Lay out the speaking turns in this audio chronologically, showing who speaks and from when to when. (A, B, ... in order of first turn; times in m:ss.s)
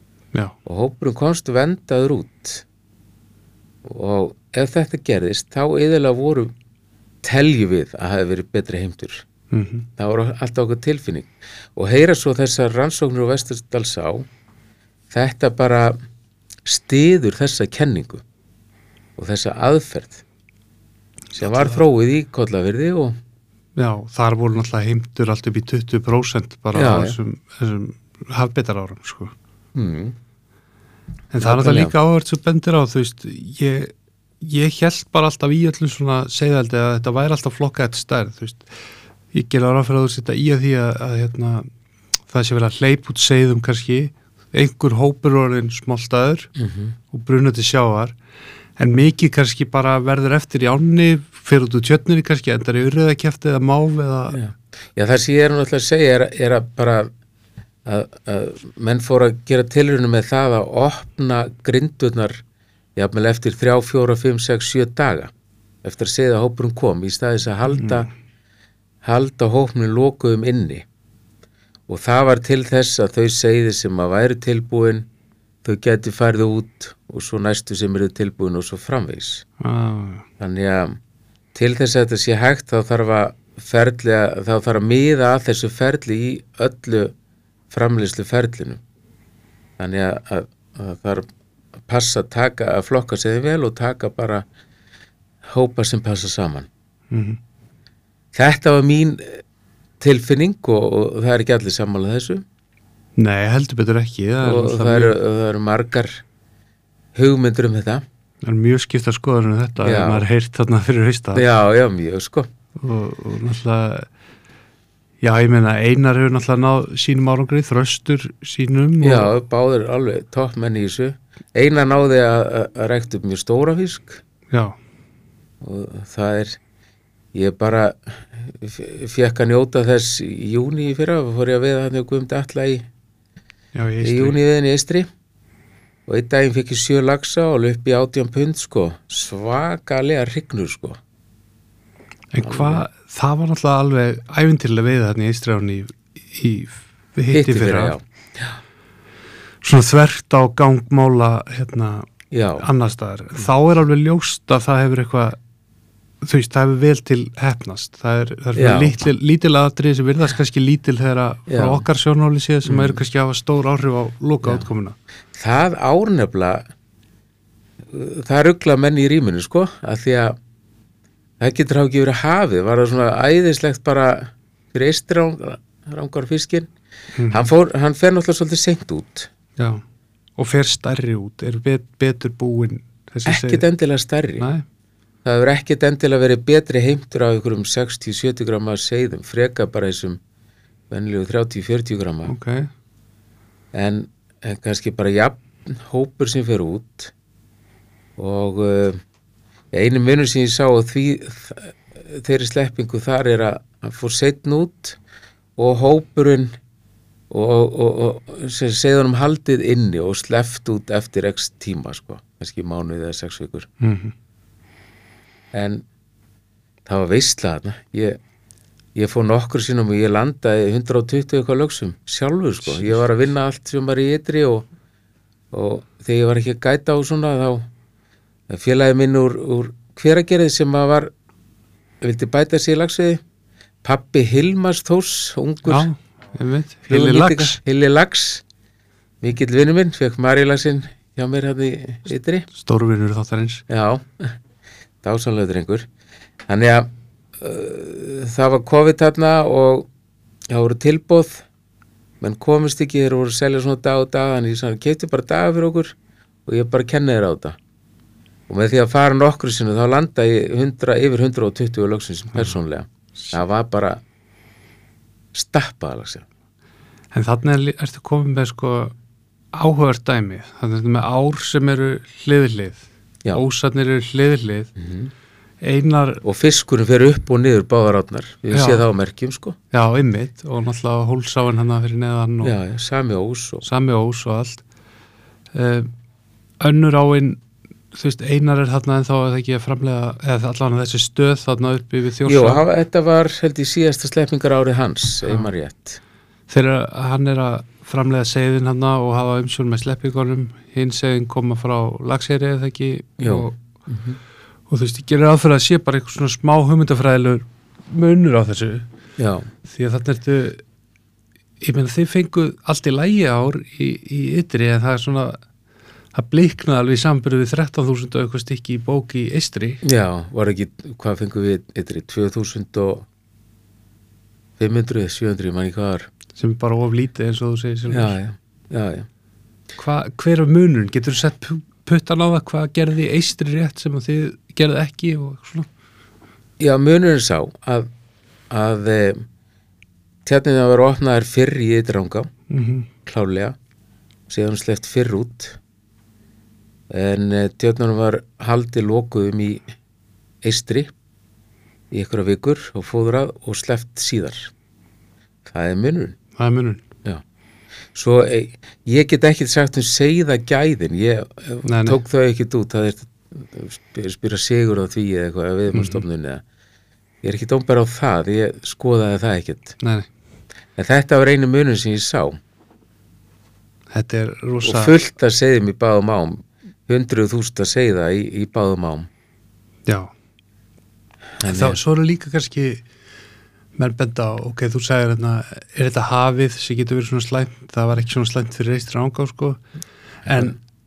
0:00.6-0:02.6 A
0:03.8-0:06.5 A
0:07.2-0:09.2 A
0:09.5-0:09.9 B
0:10.0-0:14.3 A
0:15.1-0:16.0 A
0:16.6-0:18.2 A
0:19.2-0:20.2 A
0:21.3-0:23.2 A
0:21.4-0:21.8 B
0:23.8-0:29.3 B
0:26.7-0:27.2 A
0:29.7-0:30.2 A
0:31.3-0:38.7 B
0:31.4-0:31.9 A
0:39.3-0:41.7 B
0:42.3-0:46.5 B
0:46.6-0:46.9 A
0:47.1-0:48.2 B
0:48.8-0:54.4 B
0:54.3-0:57.1 A
0:57.8-1:02.4 A
1:03.0-1:05.3 A
1:05.8-1:08.1 A
1:07.7-1:08.1 B
1:09.0-1:10.8 A
1:11.9-1:15.1 A
1:15.6-1:19.4 A
1:19.6-1:20.2 B
1:20.4-1:21.0 A
1:21.5-1:27.1 A
1:27.7-1:28.8 A
1:29.8-1:31.2 A
1:31.9-1:34.4 A
1:35.4-1:36.7 A
1:37.1-1:37.4 B
1:38.3-1:39.4 A
1:40.0-1:42.4 A
1:43.2-1:45.2 B
1:44.4-1:46.2 A
1:47.1-1:48.0 A
1:48.4-1:51.4 B
1:49.8-1:50.2 A
1:51.3-1:52.5 A
1:52.8-1:54.1 B
1:55.2-1:59.3 B
1:59.0-2:04.2 A
2:04.5-2:04.8 B
2:05.6-2:06.6 A
2:07.3-2:12.8 A
2:13.7-2:14.4 B
2:14.0-2:15.1 A
2:16.1-2:21.0 A
2:22.3-2:27.9 B
2:22.4-2:22.8 A
2:27.3-2:28.6 A
2:29.6-2:32.1 B
2:32.3-2:32.7 A
2:32.6-2:35.4 B
2:36.2-2:44.9 B
2:38.5-2:39.0 A
2:41.5-2:41.8 A
2:42.6-2:43.0 A
2:45.3-2:46.6 A
2:47.9-2:50.4 A
2:51.4-2:56.7 A
2:57.1-2:57.5 B
2:57.3-2:59.3 A
3:00.4-3:03.6 B
3:03.2-3:04.5 A
3:04.4-3:04.6 B
3:05.2-3:10.2 A
3:10.9-3:12.3 A
3:12.3-3:12.7 B
3:13.7-3:17.1 A
3:18.2-3:19.0 A
3:19.7-3:25.0 A
3:25.6-3:26.5 A
3:27.3-3:33.7 A
3:33.8-3:34.1 B
3:35.5-3:35.8 A
3:36.8-3:38.2 A
3:38.9-3:44.7 A
3:45.5-3:47.7 A
3:48.5-3:51.1 A
3:52.0-3:53.2 A
3:53.8-3:55.9 A
3:55.7-3:57.6 B
3:56.9-3:58.4 A
3:59.2-4:02.5 A
4:02.5-4:03.6 B
4:03.7-4:04.4 A
4:05.0-4:05.9 A
4:06.5-4:09.9 A
4:10.5-4:11.4 A
4:12.2-4:15.9 A
4:16.4-4:17.6 A
4:18.5-4:24.0 A
4:25.3-4:26.2 A
4:27.1-4:28.9 B
4:29.5-4:34.7 B
4:34.8-4:35.1 A
4:35.6-4:36.2 B
4:36.2-4:39.6 A
4:38.5-4:38.8 B
4:39.7-4:42.5 B
4:42.4-4:43.6 A
4:43.6-4:44.6 B
4:45.5-4:45.9 B
4:46.6-4:47.4 B
4:47.9-4:52.6 B
4:52.2-4:56.0 A
4:56.5-5:03.6 B
5:03.2-5:04.2 A
5:04.7-5:08.9 B
5:09.2-5:09.5 A
5:09.7-5:10.6 B
5:11.6-5:15.4 B
5:16.1-5:19.8 B
5:19.8-5:23.1 A
5:24.6-5:26.1 A
5:26.4-5:28.2 B
5:27.9-5:29.1 A
5:29.8-5:35.7 B
5:36.6-5:37.9 A
5:38.5-5:39.2 A
5:40.2-5:42.3 A
5:42.5-5:42.9 B
5:43.0-5:43.6 A
5:44.3-5:45.6 A
5:46.9-5:49.6 A
5:50.4-5:50.9 A
5:51.9-5:54.5 A
5:55.4-5:56.2 A
5:56.4-5:56.8 B
5:57.9-6:06.4 A
6:01.6-6:02.0 B
6:05.7-6:06.0 B
6:07.2-6:09.7 A
6:09.8-6:10.0 B
6:10.8-6:12.4 A
6:13.9-6:14.9 B
6:14.6-6:19.1 A
6:21.4-6:21.8 A
6:21.4-6:22.8 B
6:23.8-6:29.6 B
6:30.2-6:30.6 B
6:30.3-6:30.5 A